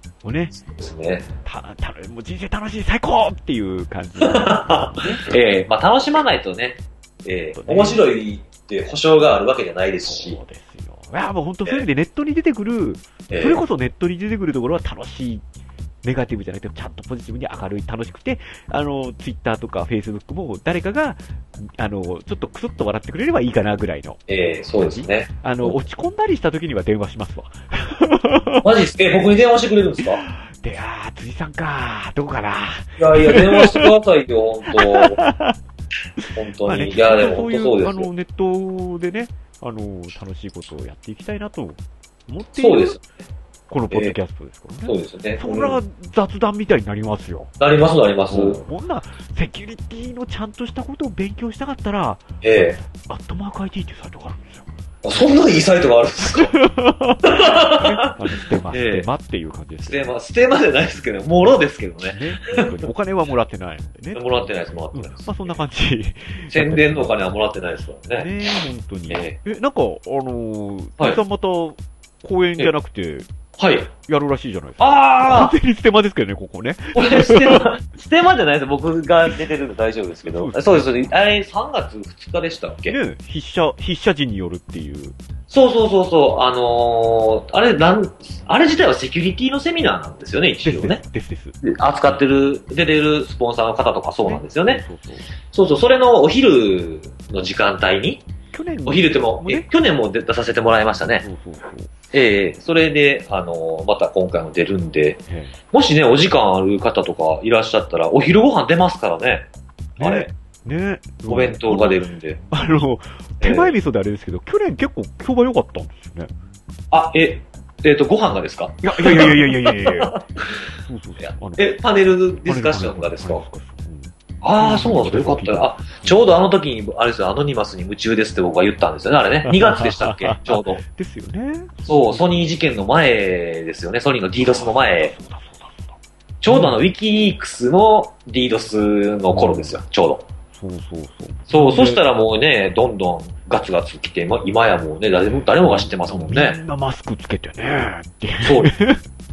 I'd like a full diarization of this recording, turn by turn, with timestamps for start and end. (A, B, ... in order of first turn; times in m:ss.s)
0:00.2-0:00.6 A
0:00.6-0:01.3 B
0:01.4-0:05.2 A
0:04.2-0:10.4 B
0:07.6-0:08.0 A
0:10.0-0:15.4 A
0:13.3-0:13.6 B
0:16.0-0:24.2 A
0:24.3-0:25.8 B
0:24.8-0:28.7 A
0:28.6-0:30.2 B
0:30.0-0:33.9 A
0:33.0-0:35.2 B
0:34.7-0:35.6 A
0:36.2-0:43.0 A
0:36.3-0:38.1 B
0:42.5-0:43.0 B
0:43.7-0:47.5 A
0:43.9-0:44.2 B
0:44.8-0:45.8 B
0:47.6-0:48.6 B
0:48.3-0:54.7 A
0:52.4-0:52.8 B
0:55.0-0:56.6 B
0:56.2-1:00.1 A
0:57.2-0:59.1 B
0:59.8-1:02.8 B
1:02.0-1:07.2 A
1:04.1-1:05.6 B
1:06.5-1:08.6 B
1:08.2-1:13.3 A
1:09.1-1:09.4 B
1:13.6-1:13.9 B
1:14.0-1:17.8 A
1:14.8-1:15.6 B
1:16.9-1:23.0 B
1:20.2-1:21.1 A
1:22.9-1:25.2 A
1:25.5-1:31.0 B
1:30.6-1:32.2 A
1:31.6-1:34.8 B
1:34.2-1:35.3 A
1:35.5-1:38.2 B
1:38.5-1:39.7 A
1:38.8-1:41.2 B
1:41.2-1:42.0 A
1:42.1-1:49.4 B
1:45.3-1:45.6 A
1:50.0-1:56.3 A
1:50.0-1:50.3 B
1:51.3-1:52.4 B
1:53.4-1:53.7 B
1:56.9-2:03.4 B
1:58.8-2:06.2 A
2:04.4-2:10.8 B
2:09.4-2:12.3 A
2:11.8-2:15.1 B
2:14.4-2:16.0 A
2:16.4-2:20.2 B
2:16.5-2:16.8 A
2:19.3-2:19.8 A
2:20.5-2:22.0 A
2:21.5-2:26.6 B
2:25.4-2:29.0 A
2:28.4-2:28.7 B